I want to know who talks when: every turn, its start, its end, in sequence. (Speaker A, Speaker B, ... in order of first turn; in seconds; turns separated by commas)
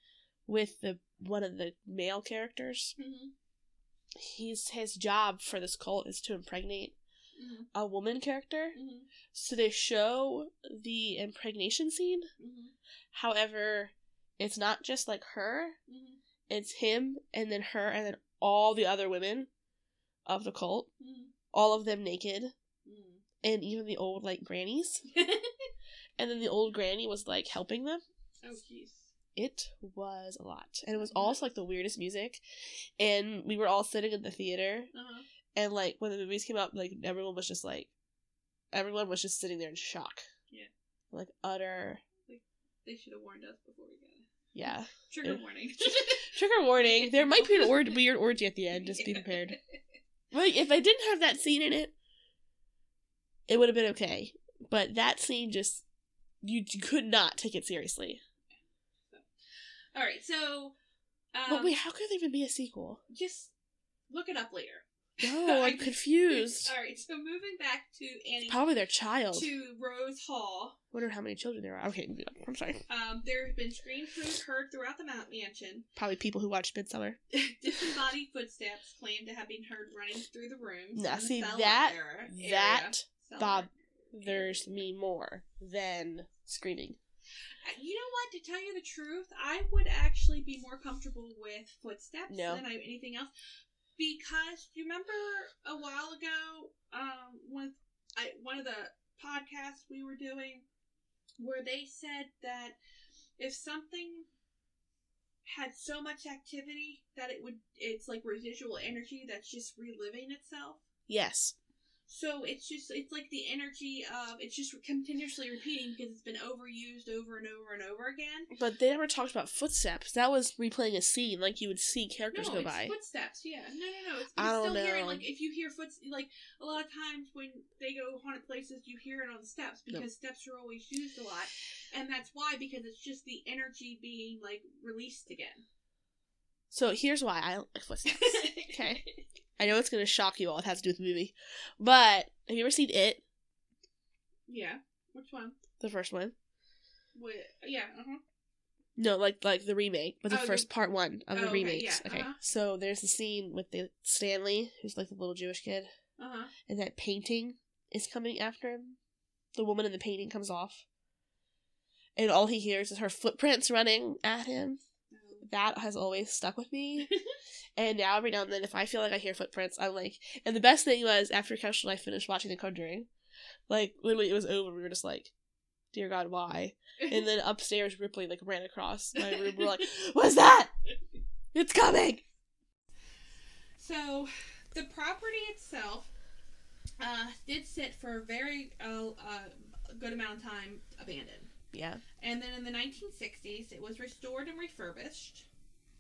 Speaker A: 0.5-2.9, Speaker B: 3.0-3.3, Speaker A: 4.1-7.0, Speaker B: 7.4-7.7, Speaker A: 7.7-8.8, Speaker B: 8.7-9.1, Speaker A: 9.3-12.3, Speaker B: 12.4-12.7, Speaker A: 13.1-15.8, Speaker B: 15.9-16.2, Speaker A: 16.5-19.5, Speaker A: 20.3-20.9, Speaker B: 21.0-21.3, Speaker A: 21.5-22.5, Speaker B: 22.9-23.2, Speaker A: 23.4-25.0, Speaker B: 25.1-25.7, Speaker A: 26.2-28.0, Speaker B: 28.4-29.1, Speaker A: 29.4-32.4, Speaker B: 30.9-31.4, Speaker A: 33.0-34.9, Speaker B: 34.9-35.3, Speaker A: 35.6-37.9, Speaker A: 38.7-40.2, Speaker A: 41.1-42.0, Speaker B: 42.3-44.3, Speaker A: 44.5-49.6, Speaker B: 45.1-48.0, Speaker B: 48.7-49.6, Speaker A: 50.3-51.9, Speaker A: 53.5-55.8, Speaker A: 56.4-58.2, Speaker B: 60.0-60.7, Speaker B: 61.3-61.8, Speaker A: 61.5-63.0, Speaker B: 63.1-63.5, Speaker B: 64.1-68.6, Speaker A: 65.2-66.7, Speaker A: 68.5-69.5, Speaker B: 69.3-70.8, Speaker A: 70.9-72.8, Speaker B: 72.9-75.9, Speaker A: 76.0-77.2, Speaker B: 77.3-84.9, Speaker A: 81.0-87.0, Speaker B: 87.6-93.3, Speaker A: 92.3-92.6, Speaker B: 94.0-100.7, Speaker B: 101.4-102.8, Speaker B: 103.4-104.3, Speaker B: 105.5-110.8, Speaker A: 111.1-111.5, Speaker B: 112.1-118.5, Speaker A: 118.5-122.9, Speaker B: 122.3-135.6, Speaker A: 124.4-125.3, Speaker A: 136.7-139.0, Speaker B: 138.1-139.2, Speaker A: 139.6-143.2, Speaker B: 144.5-145.6, Speaker A: 145.8-146.3, Speaker B: 147.2-148.2, Speaker A: 149.0-155.9, Speaker B: 150.3-150.7, Speaker B: 151.3-152.4, Speaker B: 156.2-156.5, Speaker A: 156.7-159.0, Speaker A: 159.6-160.8, Speaker A: 162.2-164.8, Speaker B: 165.1-165.4, Speaker A: 165.4-167.1, Speaker A: 167.8-173.1, Speaker A: 173.7-175.3, Speaker A: 175.9-180.7, Speaker A: 181.5-182.2, Speaker B: 183.8-186.1, Speaker B: 187.0-191.5, Speaker A: 191.7-192.0, Speaker B: 192.2-195.5